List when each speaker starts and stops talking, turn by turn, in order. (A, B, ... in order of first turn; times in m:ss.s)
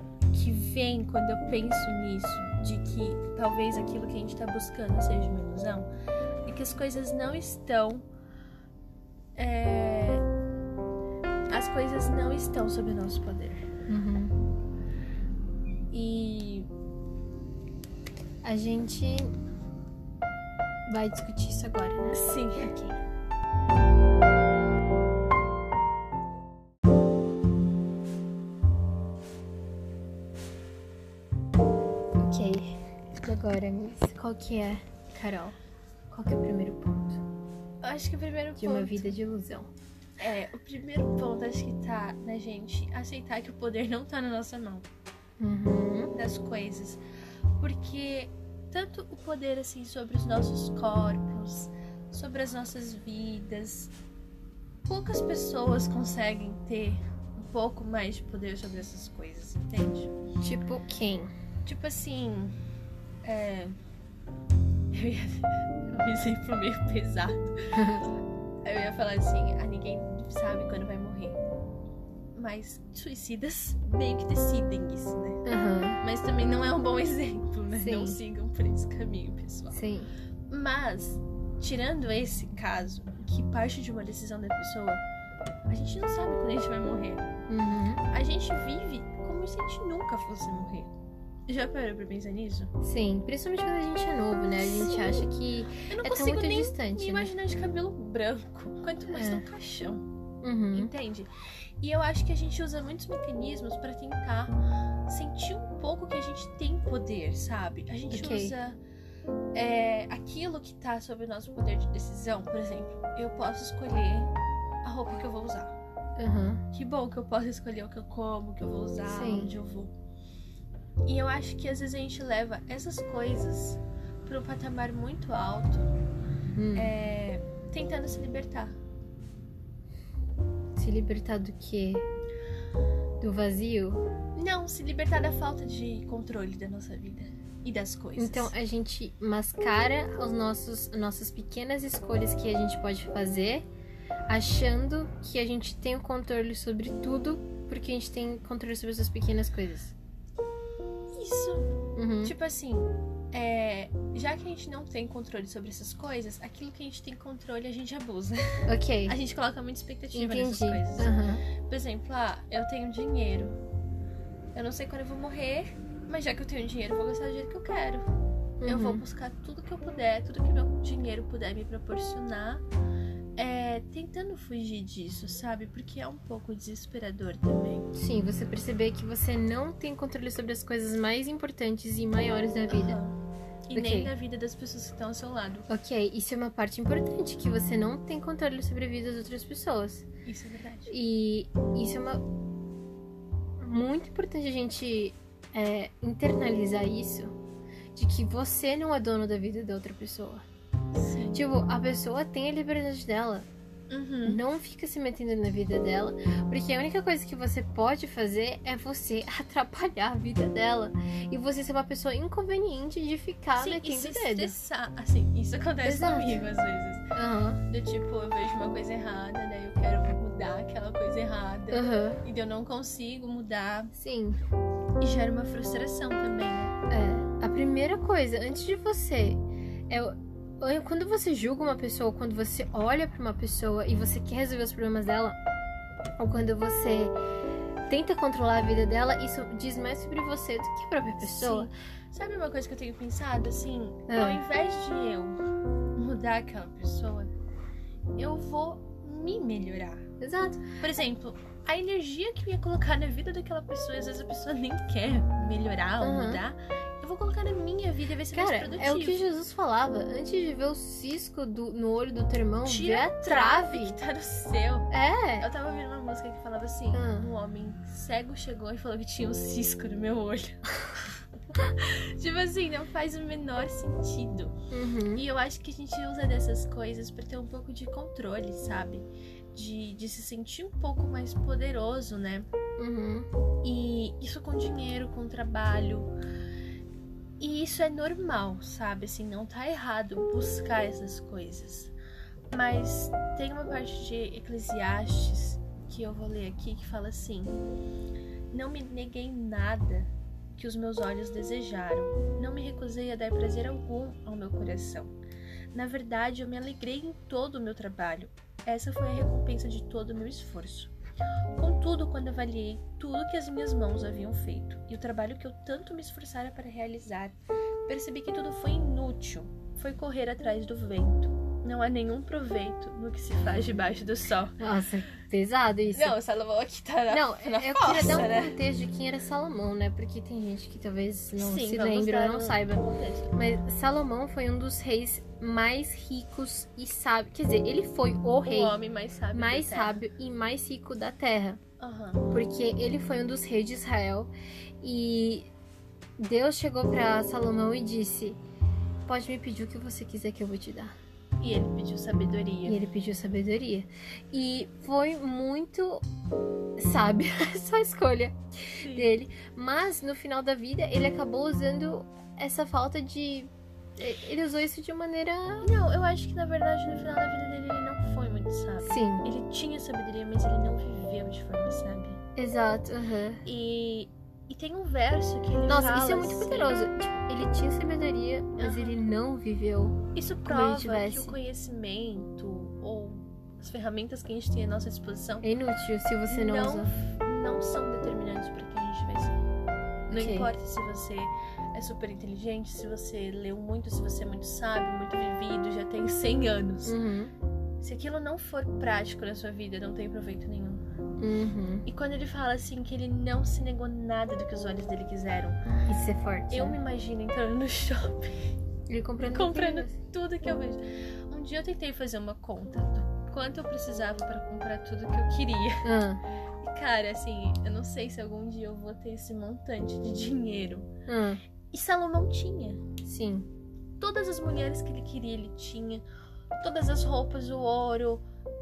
0:00.3-0:05.9 A
0:06.4-0:08.1 A
0:09.3-0:10.2 A
0:11.5-0:13.6 A
0:13.9-0:14.4 B
0:15.9-0:16.7 A
0:18.4-0:19.3 B
0:20.9-0:23.0 B
0:22.1-0:22.7 A
0:32.2-0:35.6 B
0:36.1-0:37.2 B
0:37.8-0:39.1 A
0:38.6-0:39.7 B
0:40.2-0:44.9 A
0:45.4-0:46.1 B
0:46.1-0:47.0 A
0:47.6-0:53.9 A
0:54.8-1:00.1 A
1:00.4-1:01.3 B
1:01.6-1:02.5 A
1:03.2-1:03.7 A
1:04.9-1:07.8 A
1:07.7-1:08.1 B
1:08.6-1:11.4 A
1:12.3-1:15.4 A
1:15.4-1:16.0 B
1:16.0-1:19.8 A
1:17.7-1:18.2 B
1:19.7-1:20.1 B
1:20.5-1:25.0 A
1:25.7-1:27.3 A
1:27.5-1:28.0 B
1:28.1-1:30.9 A
1:31.5-1:32.7 A
1:32.8-1:37.3 B
1:34.6-1:35.3 A
1:35.8-1:40.0 A
1:39.1-1:39.4 B
1:40.4-1:40.9 B
1:40.7-1:41.3 A
1:41.8-1:44.5 A
1:45.1-1:48.8 A
1:48.1-1:48.5 B
1:49.5-1:54.3 A
1:54.8-1:55.7 A
1:56.2-1:56.6 B
1:56.7-1:59.9 A
1:59.1-1:59.5 B
2:01.0-2:05.8 A
2:06.5-2:06.9 B
2:06.7-2:08.8 A
2:10.8-2:12.0 B
2:13.2-2:14.0 B
2:14.4-2:18.5 A
2:18.2-2:23.6 B
2:24.3-2:29.9 B
2:31.1-2:31.7 A
2:32.0-2:32.3 B
2:32.2-2:43.6 A
2:38.7-2:39.2 B
2:40.1-2:41.4 B
2:44.5-2:48.1 A
2:48.6-2:49.0 B
2:48.6-2:52.6 A
2:53.4-2:57.9 A
2:57.9-3:03.0 B
3:02.7-3:03.2 A
3:03.7-3:05.7 A
3:03.7-3:04.1 B
3:05.7-3:10.1 B
3:10.2-3:10.9 A
3:10.9-3:12.2 B
3:13.6-3:17.3 B
3:17.9-3:20.4 B
3:20.9-3:21.4 A
3:21.3-3:23.5 B
3:23.9-3:24.4 A
3:24.2-3:34.6 B
3:33.6-3:37.0 A
3:35.8-3:36.5 B
3:37.1-3:37.6 B
3:37.7-3:43.9 A
3:41.7-3:42.2 B
3:43.9-3:44.4 B
3:45.0-3:46.7 A
3:46.9-3:55.4 B
3:56.2-3:57.1 B
3:57.9-4:01.7 B
4:01.2-4:05.4 A
4:04.1-4:04.4 B
4:06.0-4:07.3 A
4:08.2-4:10.1 A
4:10.2-4:10.7 B
4:10.8-4:19.2 A
4:16.0-4:16.4 B
4:18.3-4:24.0 B
4:22.6-4:30.7 A
4:24.9-4:25.5 B
4:26.9-4:27.3 B
4:31.6-4:34.5 A
4:34.7-4:35.2 B
4:35.1-4:42.5 A
4:42.8-4:43.3 B
4:43.6-4:46.1 A
4:47.4-4:51.9 A
4:52.5-4:57.6 A
4:58.5-5:05.1 A
5:05.7-5:10.9 A
5:11.6-5:17.4 A
5:17.9-5:24.6 A
5:24.6-5:26.1 B
5:25.9-5:28.5 A
5:27.1-5:32.8 B
5:31.4-5:33.3 A
5:33.3-5:38.8 B
5:38.4-5:40.0 A
5:39.3-5:41.6 B
5:41.8-5:42.2 A
5:42.3-5:45.5 B
5:46.2-5:48.4 B
5:49.0-5:51.0 B
5:51.4-5:52.8 A
5:52.6-5:56.0 B
5:56.8-6:05.7 B
5:58.8-5:59.1 A
6:05.6-6:12.2 A
6:08.8-6:09.2 B
6:12.4-6:13.4 B
6:13.4-6:16.8 A
6:15.7-6:21.4 B
6:18.6-6:19.0 A
6:20.1-6:25.4 A
6:25.4-6:26.9 B
6:26.3-6:29.4 A
6:30.1-6:37.0 A
6:30.1-6:30.5 B
6:36.8-6:37.3 B
6:37.8-6:40.8 A
6:41.2-6:41.8 B
6:41.8-6:45.6 A
6:45.9-6:46.8 B
6:46.5-6:48.5 A
6:48.9-6:49.9 B
6:49.2-6:55.9 A
6:55.8-6:56.2 B
6:56.6-7:00.9 A
7:01.1-7:01.4 B
7:01.7-7:02.8 A
7:03.0-7:03.5 B
7:04.0-7:06.0 A
7:06.6-7:08.2 A